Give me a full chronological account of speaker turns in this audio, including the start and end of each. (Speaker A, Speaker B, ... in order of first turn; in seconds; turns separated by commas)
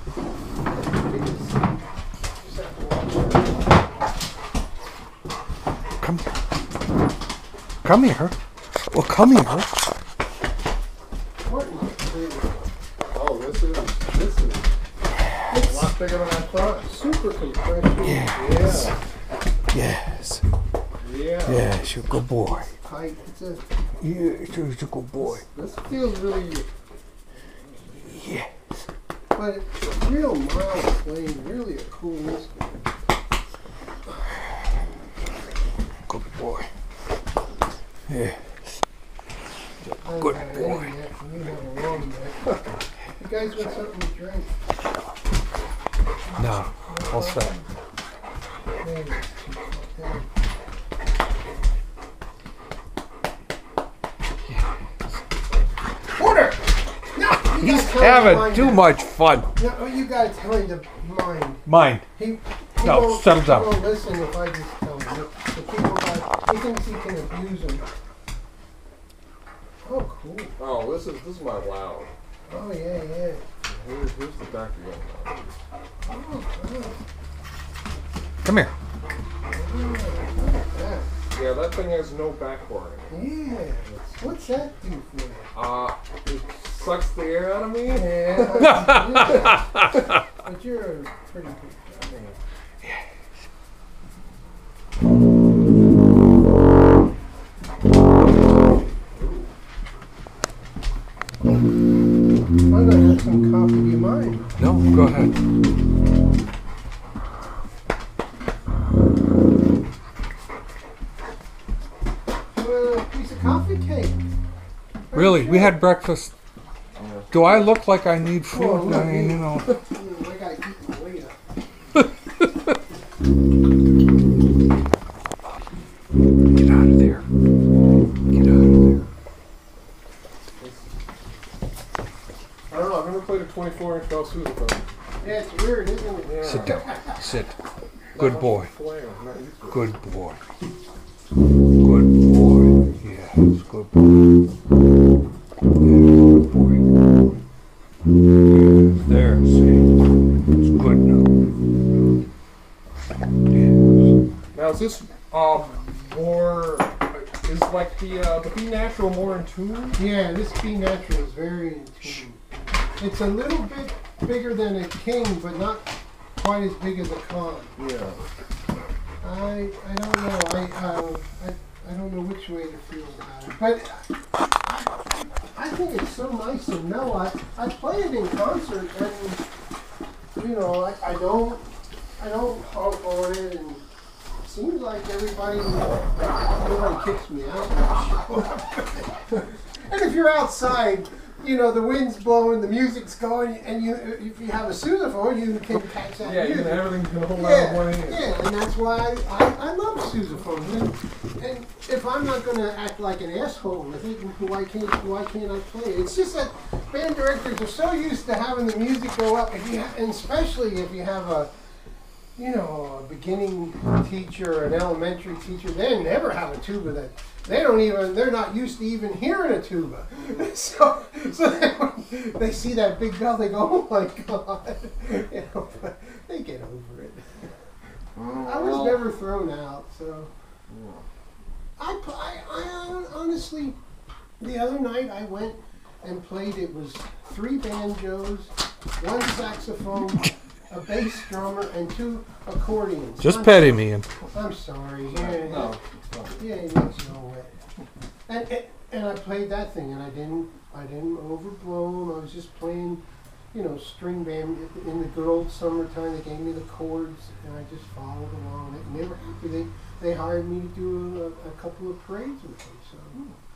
Speaker A: 0.8-1.8, Speaker A: 2.4-3.5, Speaker B: 6.0-6.3, Speaker B: 7.8-8.4, Speaker B: 8.9-9.7, Speaker A: 11.4-12.7, Speaker C: 13.1-14.7, Speaker A: 15.5-15.9, Speaker C: 15.5-17.0, Speaker A: 16.8-18.4, Speaker B: 18.0-18.9, Speaker C: 18.3-19.0, Speaker B: 19.7-20.4, Speaker C: 21.0-21.7, Speaker B: 21.4-22.7, Speaker A: 22.5-23.6, Speaker B: 24.0-25.4, Speaker C: 25.2-26.7, Speaker B: 28.1-28.5, Speaker A: 29.3-32.7, Speaker B: 36.1-36.7, Speaker B: 38.1-38.4, Speaker B: 39.9-40.9, Speaker A: 40.0-42.7, Speaker A: 43.2-44.5, Speaker B: 46.4-47.6, Speaker A: 46.9-47.6, Speaker A: 48.8-50.3, Speaker A: 56.2-56.6, Speaker A: 57.1-59.0, Speaker B: 57.6-59.5, Speaker A: 59.6-67.9, Speaker B: 61.7-62.1, Speaker B: 62.8-63.8, Speaker A: 69.8-70.6, Speaker C: 70.6-72.1, Speaker A: 72.5-73.4, Speaker C: 73.7-75.5, Speaker A: 76.0-77.0, Speaker B: 78.4-78.7, Speaker A: 79.5-81.1, Speaker C: 81.3-83.2, Speaker A: 83.1-85.5, Speaker C: 83.8-84.2, Speaker C: 85.5-88.8, Speaker A: 87.9-92.2, Speaker B: 88.5-89.9, Speaker C: 92.1-92.4, Speaker C: 99.2-99.5, Speaker A: 102.7-104.5, Speaker B: 104.6-105.3, Speaker A: 112.5-114.2, Speaker A: 115.1-115.9, Speaker B: 115.1-116.3, Speaker C: 117.0-117.7, Speaker B: 117.3-119.8, Speaker A: 118.5-121.4, Speaker B: 126.5-127.3, Speaker B: 128.3-129.1, Speaker C: 130.6-130.8, Speaker C: 132.7-134.9, Speaker A: 135.2-137.2, Speaker C: 136.2-136.8, Speaker B: 136.4-137.5, Speaker C: 138.2-139.9, Speaker B: 138.2-138.7, Speaker B: 139.7-140.4, Speaker B: 141.8-144.0, Speaker B: 145.8-146.9, Speaker B: 148.5-149.9, Speaker B: 150.6-151.3, Speaker B: 153.5-154.1, Speaker C: 154.5-160.0, Speaker A: 160.0-167.7, Speaker C: 167.8-168.2, Speaker A: 169.2-179.4, Speaker A: 180.4-183.8, Speaker A: 184.4-211.5, Speaker C: 196.0-198.3, Speaker A: 212.4-227.5, Speaker C: 228.2-229.1, Speaker A: 228.3-230.3, Speaker C: 230.7-231.0, Speaker A: 231.8-233.8, Speaker A: 234.4-245.8, Speaker B: 243.2-244.1, Speaker C: 245.1-246.4, Speaker A: 246.4-247.5, Speaker A: 248.3-263.2